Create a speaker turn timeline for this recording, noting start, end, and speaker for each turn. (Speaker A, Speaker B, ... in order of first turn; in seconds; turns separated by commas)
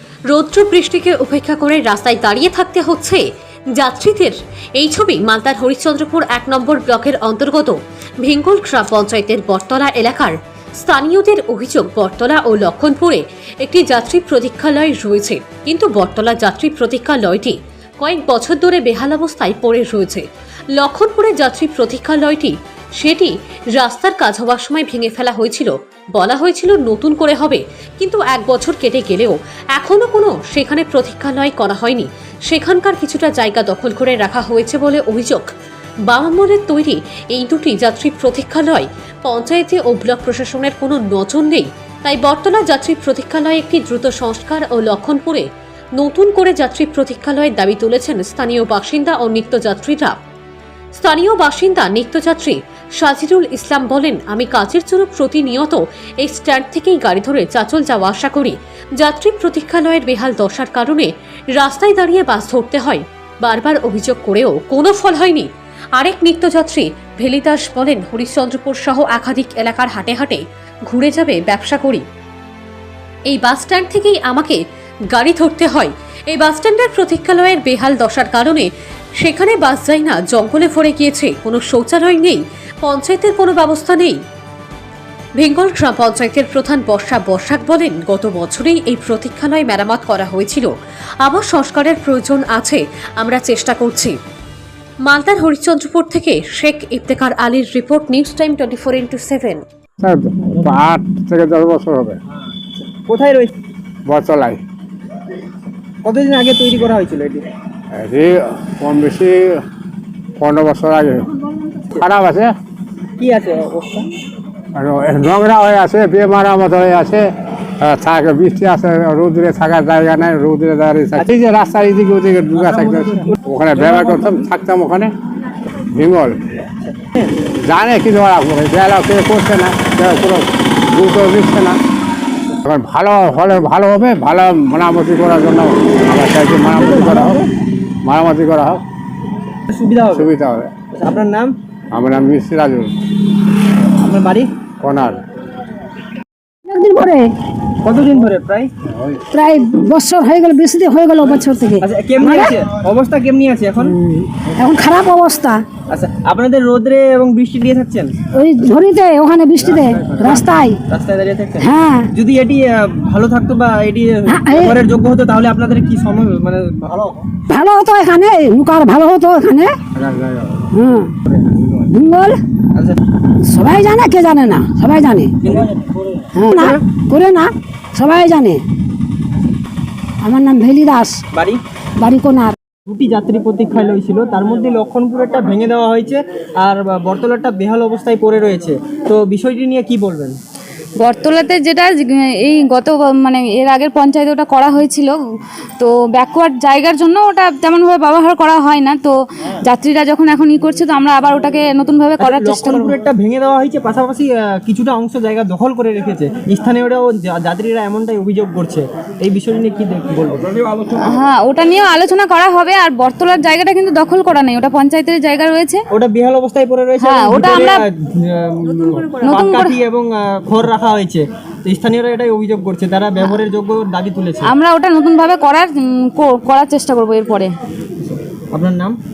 Speaker A: 0.3-3.2, Speaker A: 3.7-35.5, Speaker A: 36.1-45.5, Speaker A: 46.0-50.2, Speaker A: 51.0-72.0, Speaker A: 73.3-74.6, Speaker A: 75.1-78.7, Speaker A: 79.2-84.2, Speaker A: 85.4-90.7, Speaker A: 91.2-94.2, Speaker A: 95.0-99.6, Speaker B: 100.0-102.2, Speaker C: 102.8-103.5, Speaker B: 104.0-104.6, Speaker C: 106.0-107.5, Speaker B: 107.9-109.6, Speaker B: 110.4-111.3, Speaker B: 112.0-112.5, Speaker C: 113.2-114.1, Speaker B: 114.7-117.2, Speaker B: 117.8-125.1, Speaker C: 122.5-124.2, Speaker B: 125.9-126.4, Speaker C: 127.0-127.3, Speaker B: 127.6-131.8, Speaker B: 132.6-137.4, Speaker D: 136.8-137.4, Speaker B: 138.0-138.8, Speaker C: 139.7-140.3, Speaker B: 140.1-140.7, Speaker C: 140.9-141.5, Speaker B: 141.9-142.9, Speaker C: 144.0-144.5, Speaker B: 144.8-145.2, Speaker D: 146.7-147.3, Speaker C: 147.8-148.7, Speaker B: 148.9-149.2, Speaker D: 149.3-152.6, Speaker C: 151.8-153.9, Speaker D: 154.0-155.6, Speaker C: 155.9-158.1, Speaker D: 158.3-160.8, Speaker B: 159.6-160.4, Speaker C: 160.9-167.4, Speaker D: 161.6-162.1, Speaker D: 164.3-164.7, Speaker D: 167.5-169.8, Speaker B: 169.9-170.7, Speaker D: 170.7-171.1, Speaker D: 171.9-172.4, Speaker C: 172.7-173.0, Speaker D: 173.4-175.3, Speaker C: 175.4-175.7, Speaker D: 176.3-178.6, Speaker D: 180.2-181.2, Speaker C: 181.3-181.6, Speaker D: 182.0-182.6, Speaker C: 182.8-190.4, Speaker E: 191.0-195.2, Speaker E: 195.8-202.9, Speaker C: 202.2-210.5, Speaker E: 210.9-215.8, Speaker C: 215.9-224.5, Speaker E: 217.0-217.8, Speaker E: 218.8-219.7, Speaker E: 224.4-227.5, Speaker C: 228.0-228.9